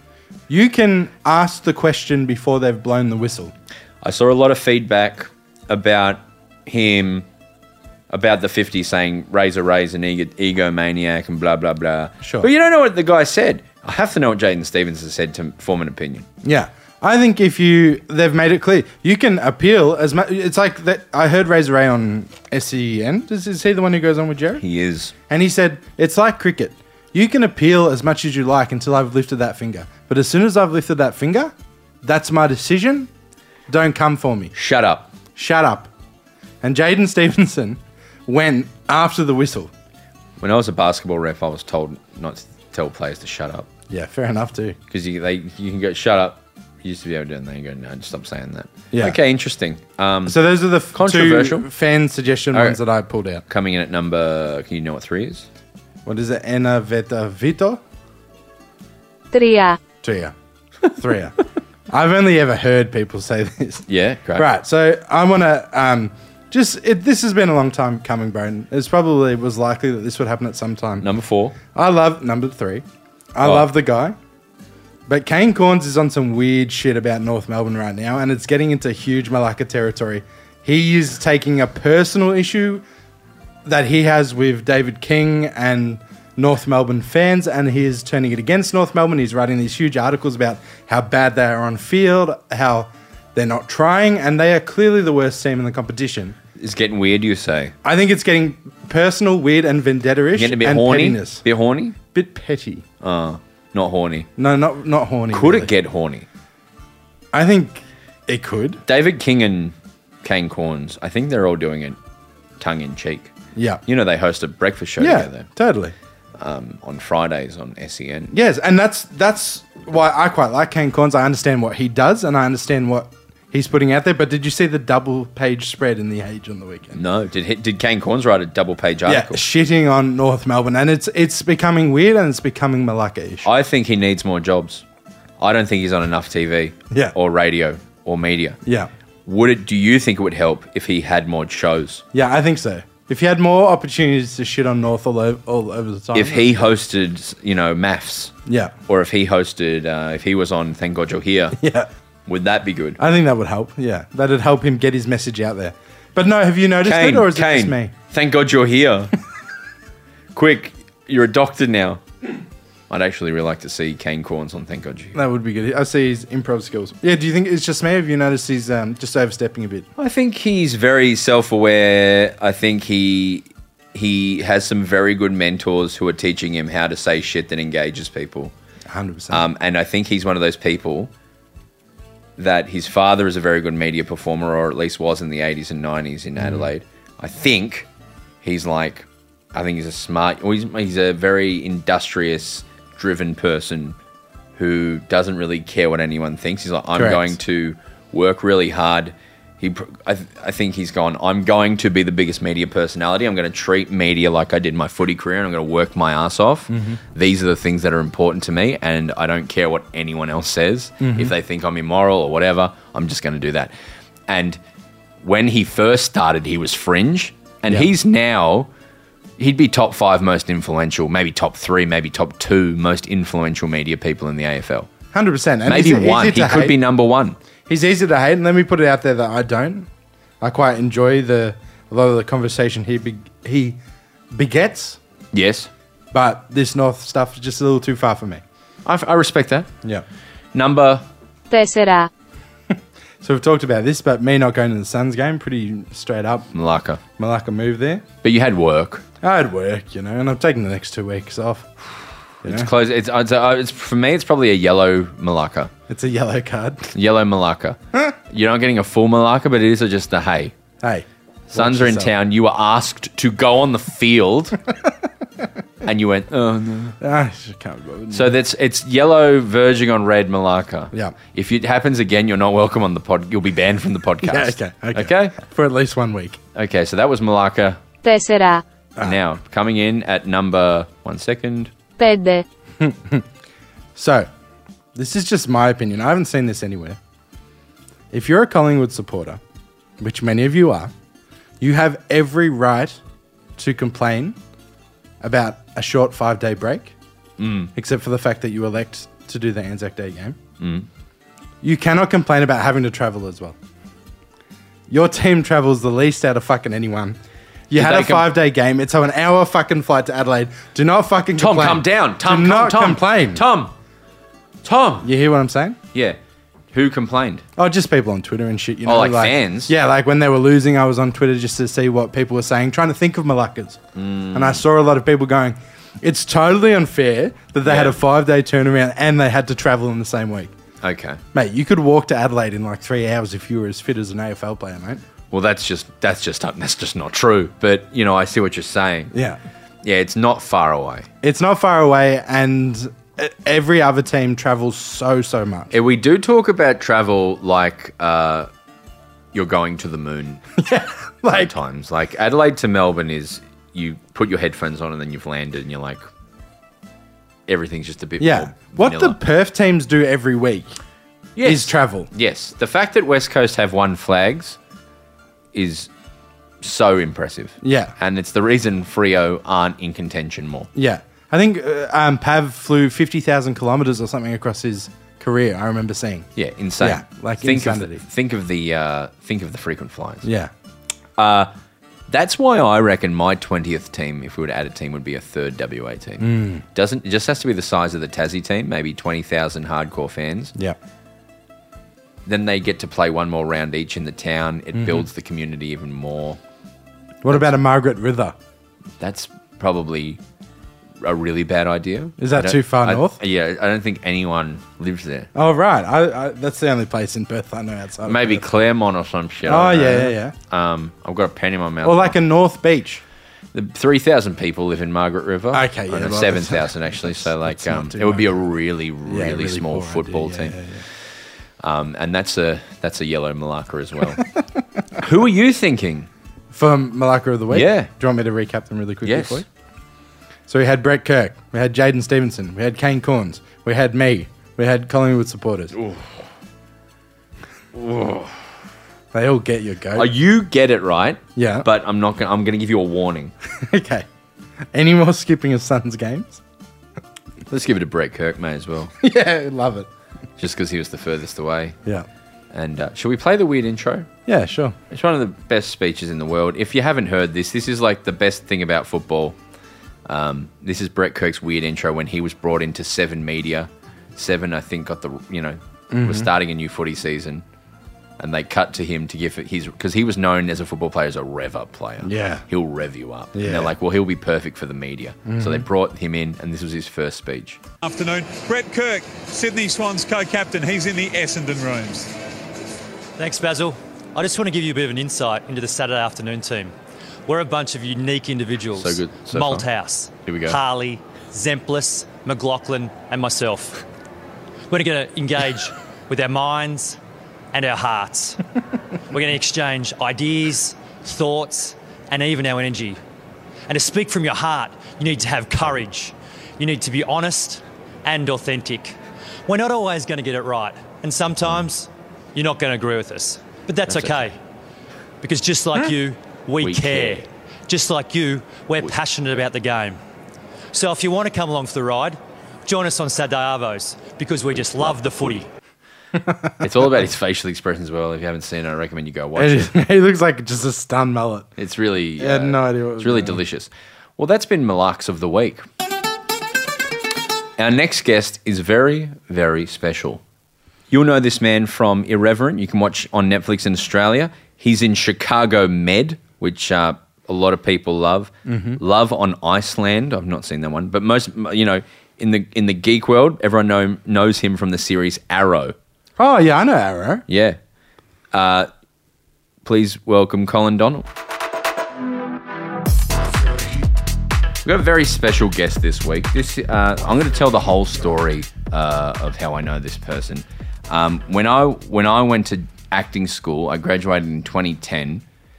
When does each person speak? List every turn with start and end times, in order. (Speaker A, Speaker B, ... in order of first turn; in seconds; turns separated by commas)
Speaker A: 0.5-3.5, Speaker B: 4.0-7.3, Speaker B: 8.1-16.3, Speaker A: 12.2-12.5, Speaker A: 16.4-24.6, Speaker B: 24.6-25.1, Speaker A: 25.3-33.1, Speaker A: 33.7-34.5, Speaker B: 34.5-35.1, Speaker A: 35.4-35.9, Speaker A: 36.6-39.7, Speaker B: 40.4-43.7, Speaker A: 43.9-44.8, Speaker B: 44.9-50.4, Speaker A: 48.9-49.2, Speaker A: 50.3-53.4, Speaker B: 50.9-51.7, Speaker B: 52.5-52.8, Speaker B: 53.5-55.5, Speaker A: 56.1-57.8, Speaker C: 59.3-59.8, Speaker A: 60.0-60.4, Speaker A: 60.9-61.4, Speaker A: 61.9-71.1, Speaker B: 63.9-64.5, Speaker B: 71.0-71.6, Speaker A: 71.7-74.2, Speaker B: 73.4-73.7, Speaker A: 75.1-82.8, Speaker A: 83.7-96.4, Speaker B: 96.6-97.7, Speaker A: 97.8-101.4, Speaker B: 100.3-102.0, Speaker A: 102.1-102.8, Speaker B: 103.0-104.3, Speaker A: 104.4-105.7, Speaker B: 105.3-106.3, Speaker A: 107.3-108.8, Speaker B: 108.9-112.0, Speaker B: 112.6-113.3, Speaker A: 113.5-113.8, Speaker B: 113.9-115.5, Speaker A: 115.0-116.0, Speaker B: 116.4-118.3, Speaker A: 118.3-127.0, Speaker B: 127.0-129.4, Speaker A: 129.1-133.5, Speaker B: 133.4-134.8, Speaker B: 135.4-138.6, Speaker A: 138.7-138.9, Speaker B: 139.3-142.0, Speaker A: 142.1-146.5, Speaker B: 146.1-148.3, Speaker A: 148.5-148.7, Speaker B: 148.9-151.6, Speaker A: 151.6-151.9, Speaker B: 152.3-153.0, Speaker A: 153.0-157.9, Speaker B: 156.8-159.1, Speaker B: 160.3-162.0, Speaker B: 162.9-165.2, Speaker A: 165.1-169.9, Speaker B: 170.0-178.5, Speaker A: 178.9-179.4, Speaker B: 179.3-181.1, Speaker B: 182.4-187.9, Speaker A: 186.4-186.7, Speaker B: 188.4-194.0, Speaker B: 194.6-213.7, Speaker A: 196.9-197.4, Speaker A: 206.7-207.0, Speaker A: 211.0-211.3, Speaker B: 214.3-214.6, Speaker B: 215.2-218.7, Speaker B: 219.4-224.9, Speaker A: 225.1-226.8, Speaker B: 225.7-227.4, Speaker A: 227.7-229.9, Speaker A: 230.4-233.8, Speaker A: 234.3-235.0, Speaker B: 235.3-235.7, Speaker A: 236.1-238.4, Speaker B: 238.8-239.7, Speaker B: 240.5-241.1, Speaker C: 241.5-242.1, Speaker A: 242.7-246.5, Speaker B: 246.5-247.0, Speaker A: 247.2-248.1, Speaker B: 248.2-249.0, Speaker A: 249.2-252.7, Speaker B: 252.4-255.7, Speaker A: 255.9-256.9, Speaker B: 256.9-260.5, Speaker A: 260.8-262.1, Speaker B: 261.5-264.6, Speaker B: 265.9-267.0, Speaker A: 267.0-268.3, Speaker B: 268.1-275.4, Speaker A: 274.2-276.4, Speaker B: 276.6-277.8, Speaker C: 278.0-278.6, Speaker B: 279.0-281.7, Speaker C: 282.0-282.4, Speaker A: 282.8-283.3, Speaker A: 283.9-284.3, Speaker A: 284.9-287.0, Speaker A: 288.1-289.4, Speaker A: 290.0-290.9, Speaker A: 291.6-293.0, Speaker A: 293.6-294.4, Speaker A: 295.2-296.9, Speaker B: 297.4-297.7, Speaker A: 297.8-300.4, Speaker B: 300.6-300.9, Speaker A: 301.6-303.6, Speaker A: 304.9-307.2, Speaker A: 307.7-313.4, Speaker B: 307.8-308.3, Speaker B: 311.4-313.7, Speaker B: 314.6-315.1, Speaker A: 315.0-315.8, Speaker B: 316.7-317.4, Speaker A: 317.6-323.8, Speaker B: 318.9-319.7, Speaker B: 323.9-324.6, Speaker A: 324.3-330.5, Speaker B: 327.6-328.0, Speaker B: 330.8-331.2, Speaker A: 331.3-335.0, Speaker B: 335.3-339.1, Speaker A: 339.1-339.4, Speaker B: 339.8-341.1, Speaker A: 341.2-345.7, Speaker B: 345.7-348.5, Speaker B: 349.3-350.4, Speaker A: 350.6-351.5, Speaker B: 351.3-356.0, Speaker B: 357.5-359.2, Speaker A: 358.2-360.8, Speaker B: 361.4-364.6, Speaker A: 361.4-362.1, Speaker B: 365.5-365.9, Speaker B: 366.6-370.7, Speaker A: 367.6-367.9, Speaker A: 370.8-376.3, Speaker B: 376.4-380.3, Speaker A: 376.8-378.0, Speaker A: 380.2-380.5, Speaker B: 381.2-381.5, Speaker B: 382.1-390.6, Speaker A: 386.2-386.6, Speaker B: 392.3-396.4, Speaker A: 394.8-395.1, Speaker A: 397.2-398.4, Speaker B: 399.0-400.2, Speaker B: 401.0-405.3, Speaker A: 402.2-403.2, Speaker A: 405.3-408.4, Speaker B: 408.1-412.2, Speaker A: 409.4-410.4, Speaker A: 411.8-413.0, Speaker B: 413.5-420.6, Speaker A: 415.5-418.4, Speaker A: 419.1-420.9, Speaker B: 421.6-424.2, Speaker B: 425.0-426.1, Speaker A: 426.5-429.5, Speaker B: 427.5-427.9, Speaker B: 429.1-429.4, Speaker A: 430.5-435.8, Speaker B: 435.7-436.1, Speaker B: 437.7-438.3, Speaker A: 439.1-440.1, Speaker B: 439.9-443.3, Speaker A: 441.4-441.7, Speaker A: 443.6-444.1, Speaker A: 444.7-446.4, Speaker B: 447.5-448.9, Speaker A: 449.0-449.9, Speaker B: 450.4-451.8, Speaker B: 452.5-454.1, Speaker A: 454.3-454.8, Speaker B: 454.9-459.4, Speaker B: 460.1-467.4, Speaker A: 465.9-466.3, Speaker B: 468.2-477.6, Speaker A: 472.0-472.5, Speaker A: 473.3-473.8, Speaker A: 475.3-475.7, Speaker D: 477.8-482.1, Speaker E: 483.2-486.7, Speaker E: 487.3-493.8, Speaker B: 488.8-489.7, Speaker B: 490.2-490.6, Speaker E: 494.7-497.0, Speaker E: 497.5-498.4, Speaker E: 499.1-503.0, Speaker E: 503.7-514.4, Speaker B: 513.9-514.3, Speaker E: 515.2-520.0, Speaker B: 516.6-517.3, Speaker E: 520.7-525.5, Speaker B: 524.5-525.3, Speaker A: 526.1-526.6, Speaker B: 526.6-529.8, Speaker A: 529.4-531.5, Speaker B: 531.6-535.6, Speaker A: 532.2-533.4, Speaker B: 537.6-540.2, Speaker B: 540.9-555.8, Speaker A: 548.5-548.8, Speaker A: 556.2-557.2, Speaker B: 557.3-557.6, Speaker B: 558.3-558.7, Speaker B: 559.6-561.1, Speaker B: 564.6-575.2